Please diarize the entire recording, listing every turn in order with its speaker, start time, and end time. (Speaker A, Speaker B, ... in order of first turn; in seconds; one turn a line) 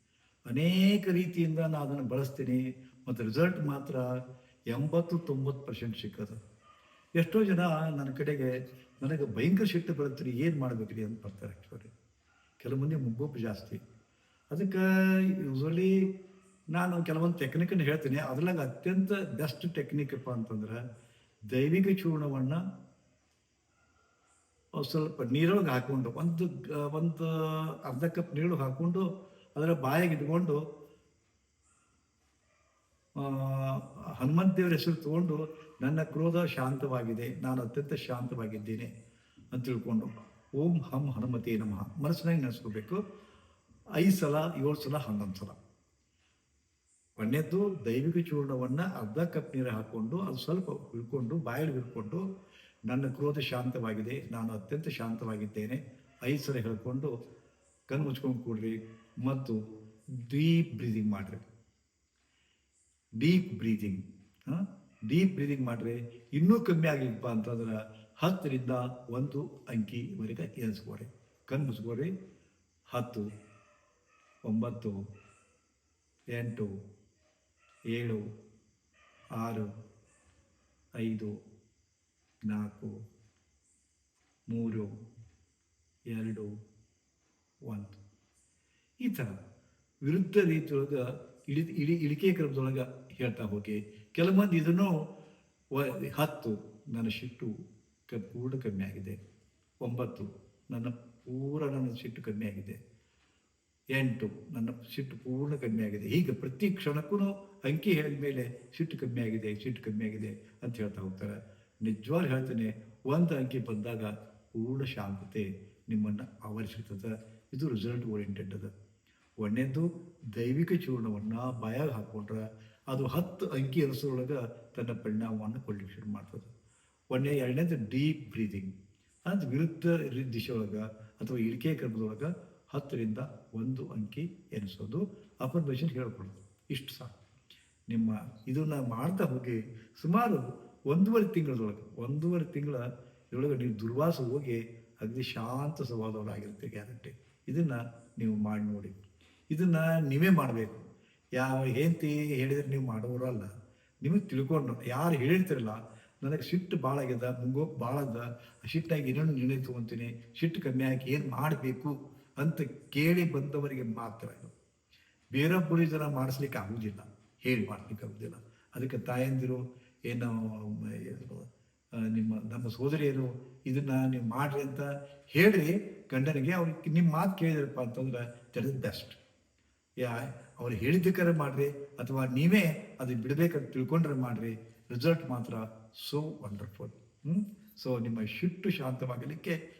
Speaker A: 0.5-4.0
Speaker A: 4.7-6.4
Speaker A: 7.2-11.9
Speaker A: 12.6-13.8
Speaker A: 14.5-14.8
Speaker A: 15.4-15.9
Speaker A: 16.7-20.8
Speaker A: 21.5-22.6
Speaker A: 24.8-29.1
Speaker A: 29.6-30.6
Speaker A: 33.2-38.9
Speaker A: 39.5-43.0
Speaker A: 44.0-45.6
Speaker A: 47.2-52.2
Speaker A: 52.9-57.1
Speaker A: 57.9-59.6
Speaker A: 60.2-61.5
Speaker A: 63.2-72.1
Speaker A: 72.9-73.2
Speaker A: 74.5-75.0
Speaker A: 76.3-76.7
Speaker A: 77.9-78.2
Speaker A: 79.4-79.7
Speaker A: 81.0-81.3
Speaker A: 82.5-82.9
Speaker A: 84.5-84.9
Speaker A: 86.1-86.5
Speaker A: 87.7-88.0
Speaker A: 89.0-89.4
Speaker A: 90.0-94.9
Speaker A: 95.7-97.5
Speaker A: 98.1-99.2
Speaker A: 99.8-102.8
Speaker A: 103.9-118.7
Speaker A: 119.4-126.5
Speaker A: 127.1-128.7
Speaker A: 129.3-137.2
Speaker A: 137.9-148.9
Speaker A: 149.5-153.5
Speaker A: 154.0-164.5
Speaker A: 165.3-171.5
Speaker A: 172.0-179.2
Speaker A: 180.0-189.6